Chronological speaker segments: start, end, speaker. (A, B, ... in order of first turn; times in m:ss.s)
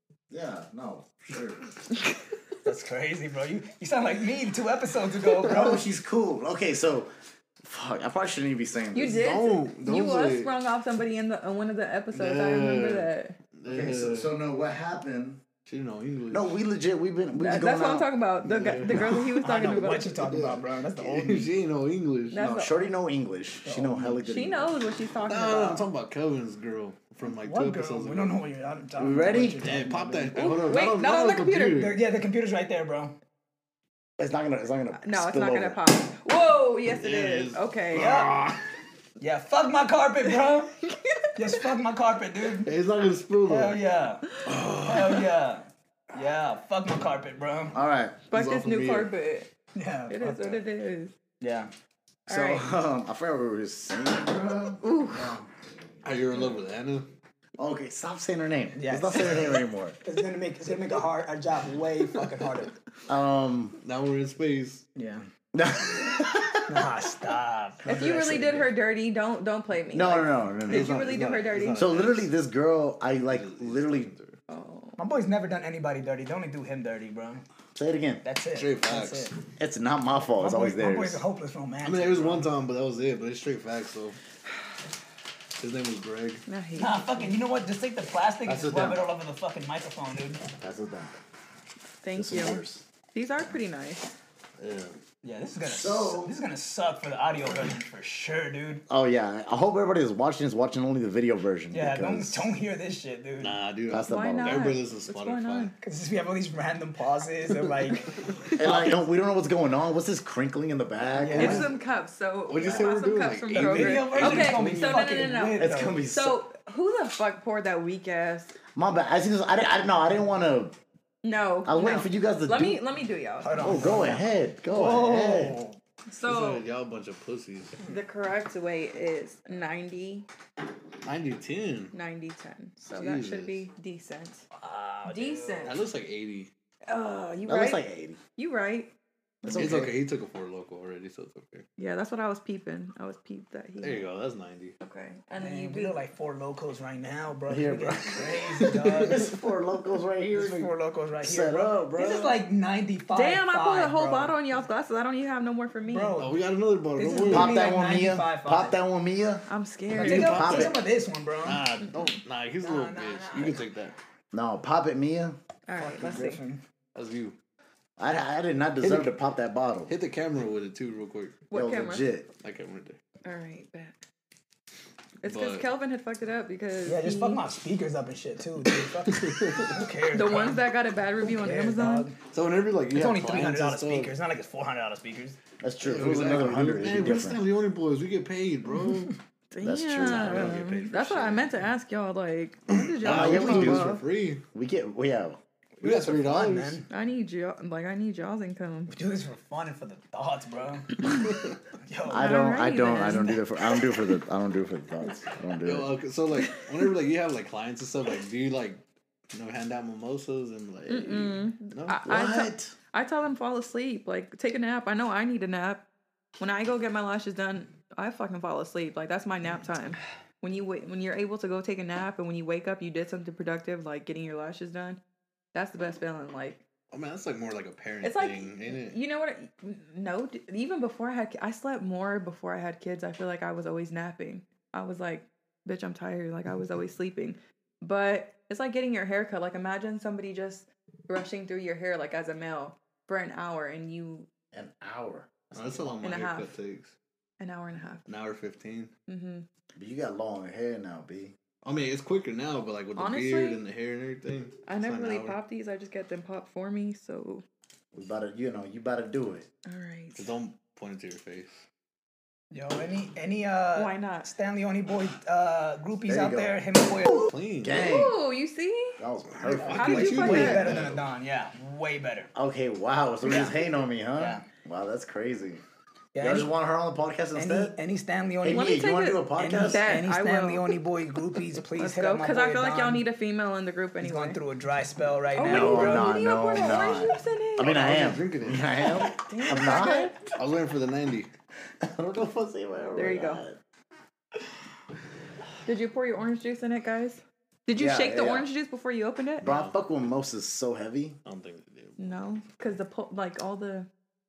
0:00.3-0:01.6 A
0:02.6-0:05.8 B
0:05.4-0:09.2 A
0:08.9-0:13.4 C
0:09.0-0:10.5 D
0:12.1-0:14.3 D
0:13.7-0:15.4 A
0:15.6-0:16.6 D
0:16.3-0:18.1 A
0:17.4-0:20.2 C
0:18.4-0:19.3 D
0:19.4-0:21.5 B
0:20.3-0:22.4 D
0:22.3-0:22.8 C
0:22.3-0:24.8 A
0:23.6-0:24.2 B
0:24.2-0:25.8 C
0:25.3-0:28.5 D
0:27.2-0:30.5 B
0:29.0-0:29.6 A
0:29.6-0:32.0 D
0:30.3-0:31.8 C
0:31.7-0:33.2 B
0:34.2-0:35.8 A
0:34.9-0:38.1 C
0:36.9-0:38.6 D
0:37.9-0:38.3 B
0:39.2-0:40.7 B
0:40.4-0:41.6 C
0:41.4-0:42.7 B
0:42.6-0:43.8 D
0:43.4-0:47.8 B
0:44.4-0:45.2 D
0:47.7-0:48.2 A
0:48.3-0:49.5 C
0:48.3-0:49.1 D
0:49.7-0:50.6 B
0:50.1-0:51.1 C
0:51.4-0:51.7 B
0:52.3-0:52.7 C
0:52.3-0:54.8 A
0:54.8-0:55.4 C
0:55.1-0:55.5 B
0:56.0-0:57.1 D
0:57.6-1:00.0 A
0:58.7-1:02.7 B
1:03.1-1:03.8 A
1:03.8-1:04.8 D
1:05.0-1:05.2 B
1:05.5-1:06.8 A
1:06.7-1:08.7 B
1:07.8-1:12.0 C
1:09.9-1:11.1 A
1:10.6-1:12.3 D
1:11.8-1:14.1 A
1:13.2-1:14.4 D
1:14.5-1:15.0 C
1:15.0-1:17.4 B
1:17.7-1:18.2 A
1:18.2-1:19.4 B
1:18.5-1:19.3 D
1:19.6-1:21.2 A
1:20.4-1:22.5 B
1:21.8-1:24.2 D
1:25.6-1:26.4 D
1:26.5-1:27.4 C
1:26.8-1:30.4 B
1:28.4-1:29.1 A
1:30.6-1:31.1 A
1:32.0-1:34.1 C
1:32.1-1:32.8 A
1:34.6-1:35.0 D
1:35.2-1:38.8 B
1:35.6-1:36.3 A
1:38.9-1:42.5 A
1:41.7-1:43.6 B
1:43.4-1:45.7 D
1:43.9-1:44.6 A
1:44.1-1:45.7 C
1:45.8-1:48.8 B
1:48.4-1:48.8 D
1:48.6-1:51.7 A
1:51.2-1:51.7 B
1:51.3-1:58.6 C
1:51.4-1:51.6 D
1:52.5-1:54.6 D
1:53.5-1:56.0 B
1:55.6-1:56.4 A
1:58.7-2:00.8 A
2:01.2-2:04.0 C
2:01.6-2:02.8 A
2:03.4-2:05.8 B
2:03.6-2:05.6 A
2:06.1-2:06.6 C
2:06.2-2:07.8 D
2:07.8-2:10.3 C
2:11.0-2:11.9 D
2:11.9-2:14.4 C
2:12.9-2:13.6 D
2:14.5-2:15.8 B
2:15.0-2:15.8 C
2:15.6-2:16.5 D
2:16.9-2:17.8 C
2:17.4-2:18.2 A
2:18.4-2:18.9 C
2:19.4-2:20.0 A
2:19.5-2:21.6 D
2:21.8-2:24.1 C
2:23.8-2:24.8 D
2:24.8-2:26.0 C
2:25.4-2:29.2 B
2:27.5-2:32.4 A
2:28.6-2:29.2 D
2:30.3-2:34.3 B
2:33.1-2:36.2 C
2:35.8-2:36.4 B
2:36.2-2:37.6 D
2:37.0-2:38.8 B
2:37.3-2:39.4 A
2:39.5-2:40.7 C
2:39.9-2:41.6 B
2:40.0-2:40.8 A
2:41.4-2:44.0 D
2:42.6-2:43.7 B
2:44.3-2:45.4 A
2:45.7-2:46.4 C
2:45.8-2:46.6 B
2:46.9-2:47.4 D
2:48.0-2:49.9 A
2:48.8-2:49.1 D
2:49.9-2:51.4 D
2:51.5-2:52.0 C
2:51.5-2:52.3 A
2:52.4-2:53.0 D
2:53.2-2:54.0 C
2:55.2-2:57.4 C
2:55.2-2:55.6 D
2:56.8-3:00.7 B
2:59.1-2:59.8 D
3:00.1-3:02.1 C
3:01.2-3:02.2 B
3:02.3-3:04.1 D
3:02.9-3:05.4 B
3:05.6-3:07.4 A
3:05.8-3:09.2 D
3:09.5-3:14.0 C
3:09.6-3:10.6 A
3:10.0-3:11.5 D
3:12.8-3:14.4 D
3:13.0-3:14.0 A
3:14.5-3:15.4 A
3:15.8-3:16.8 B
3:15.8-3:16.8 D
3:16.9-3:18.9 C
3:18.9-3:21.1 B
3:21.3-3:21.5 D
3:21.8-3:22.3 B
3:22.1-3:25.9 A
3:22.1-3:23.4 C
3:25.5-3:28.8 D
3:26.4-3:26.7 C
3:29.3-3:32.0 D
3:30.9-3:35.8 C
3:32.0-3:32.8 A
3:36.4-3:45.0 C
3:45.5-3:46.6 C
3:46.9-3:49.0 D
3:48.0-4:04.3 C
4:04.5-4:06.0 A
4:05.5-4:07.0 D
4:06.0-4:06.5 C
4:07.4-4:08.0 C
4:08.0-4:08.9 D
4:09.1-4:09.4 C
4:09.7-4:11.3 A
4:11.6-4:15.4 D
4:13.0-4:13.6 C
4:14.6-4:17.4 C
4:17.9-4:19.5 A
4:19.6-4:20.3 C
4:20.2-4:21.6 D
4:22.5-4:27.3 B
4:23.7-4:24.3 C
4:26.1-4:26.6 A
4:27.1-4:27.8 D
4:27.6-4:28.2 A
4:27.7-4:29.0 C
4:29.0-4:30.8 A
4:29.4-4:32.3 B
4:29.6-4:31.1 D
4:29.7-4:30.7 C
4:32.3-4:35.6 A
4:33.2-4:33.6 B
4:34.2-4:34.4 B
4:36.1-4:36.5 B
4:36.2-4:37.8 A
4:37.3-4:38.7 B
4:38.4-4:40.0 A
4:38.5-4:40.7 C
4:39.4-4:43.0 B
4:41.8-4:44.4 C
4:44.0-4:46.2 B
4:45.4-4:47.8 C
4:45.4-4:50.2 A
4:47.6-4:48.8 D
4:49.1-4:50.2 C
4:50.3-4:51.3 D
4:51.8-4:53.6 A
4:52.9-4:53.4 C
4:55.6-4:59.5 C
4:57.7-4:58.5 A
4:59.4-4:59.8 D
4:59.4-5:01.2 A
5:01.2-5:02.3 D
5:02.0-5:03.9 C